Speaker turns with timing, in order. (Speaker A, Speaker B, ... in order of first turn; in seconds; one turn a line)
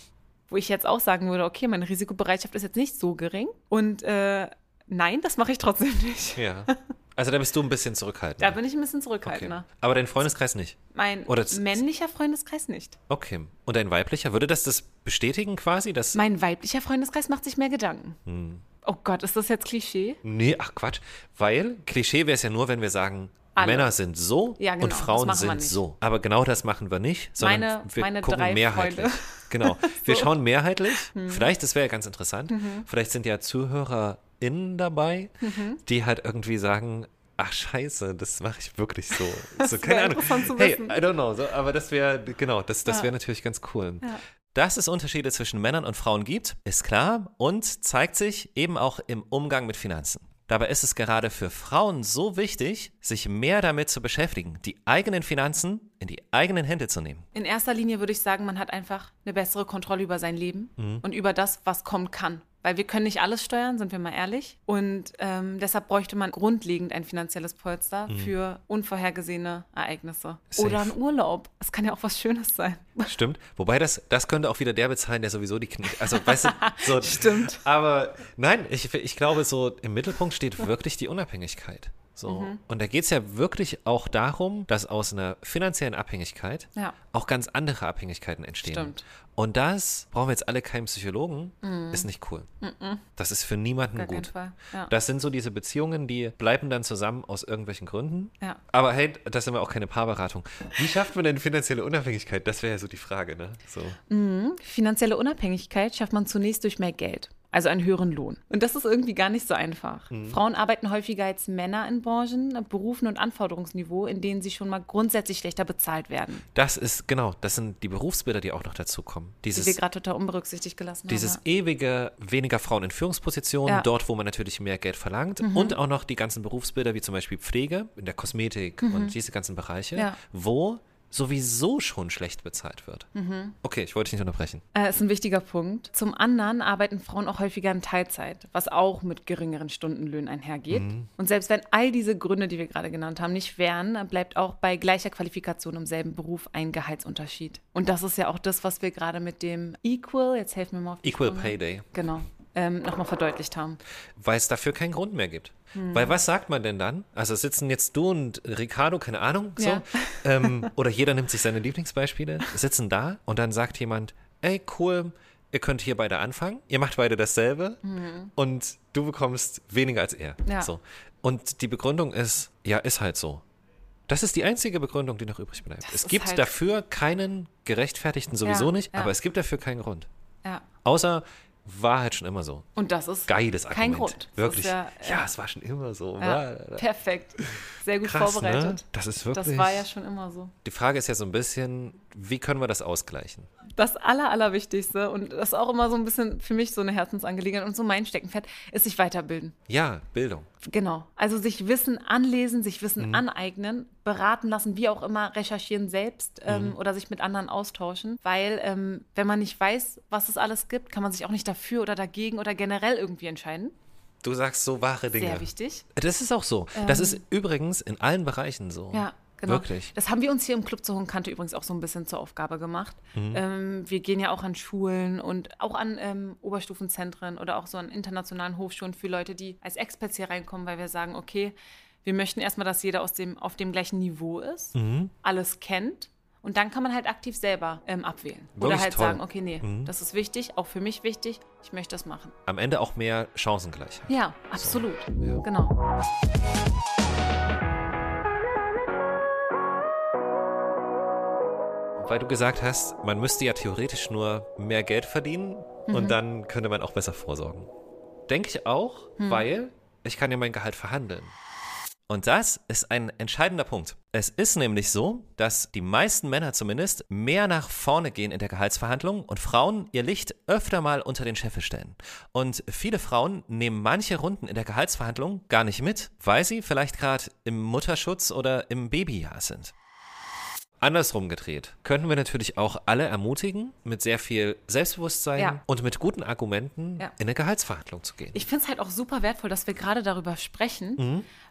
Speaker A: 0.5-6.8
Speaker B: 6.4-8.6
Speaker A: 8.4-9.7
Speaker B: 9.2-11.8
Speaker A: 10.9-13.0
Speaker B: 13.1-16.2
Speaker A: 16.1-18.2
Speaker B: 18.2-18.6
Speaker A: 18.8-20.2
Speaker B: 20.2-57.2
Speaker A: 23.5-23.9
Speaker A: 24.6-25.8
Speaker A: 27.4-30.3
Speaker A: 31.1-31.5
Speaker A: 32.5-32.9
Speaker A: 35.4-35.8
Speaker A: 39.4-41.0
Speaker A: 57.3-73.1
Speaker B: 60.8-61.0
Speaker B: 68.1-68.3
Speaker B: 70.5-71.0
Speaker B: 73.0-92.5
Speaker A: 76.0-77.6
Speaker A: 82.3-82.6
Speaker A: 88.6-89.0
Speaker A: 91.6-92.1
Speaker A: 92.6-93.0
Speaker B: 93.2-94.3
Speaker A: 93.9-94.9
Speaker B: 94.9-104.0
Speaker A: 104.1-116.4
Speaker B: 110.1-110.4
Speaker B: 116.5-119.8
Speaker A: 119.5-121.4
Speaker B: 121.1-133.1
Speaker A: 125.4-125.8
Speaker A: 128.8-129.2
Speaker A: 133.1-133.6
Speaker B: 133.6-134.6
Speaker A: 134.7-153.8
Speaker B: 140.7-141.1
Speaker B: 151.0-151.9
Speaker B: 154.2-167.8
Speaker A: 155.7-156.2
Speaker A: 159.6-160.7
Speaker A: 167.8-168.3
Speaker B: 168.3-173.4
Speaker A: 170.4-170.7
Speaker B: 174.1-180.1
Speaker A: 175.8-176.5
Speaker A: 178.4-179.1
Speaker B: 180.8-182.7
Speaker A: 182.8-185.3
Speaker B: 183.2-186.8
Speaker A: 186.2-190.5
Speaker B: 187.4-189.8
Speaker B: 190.6-193.5
Speaker A: 193.8-199.6
Speaker B: 199.7-200.5
Speaker A: 200.6-213.7
Speaker B: 203.0-203.2
Speaker B: 206.5-206.8
Speaker B: 214.2-219.9
Speaker A: 215.1-215.8
Speaker A: 216.7-217.2
Speaker A: 218.9-242.3
Speaker B: 223.1-223.4
Speaker B: 234.7-235.1
Speaker B: 238.6-239.9
Speaker B: 242.5-245.4
Speaker A: 244.1-245.7
Speaker B: 252.0-257.7
Speaker A: 255.9-256.2
Speaker B: 258.3-261.3
Speaker A: 259.2-259.4
Speaker B: 262.1-279.7
Speaker B: 280.8-288.4
Speaker A: 288.3-291.0
Speaker B: 291.0-291.3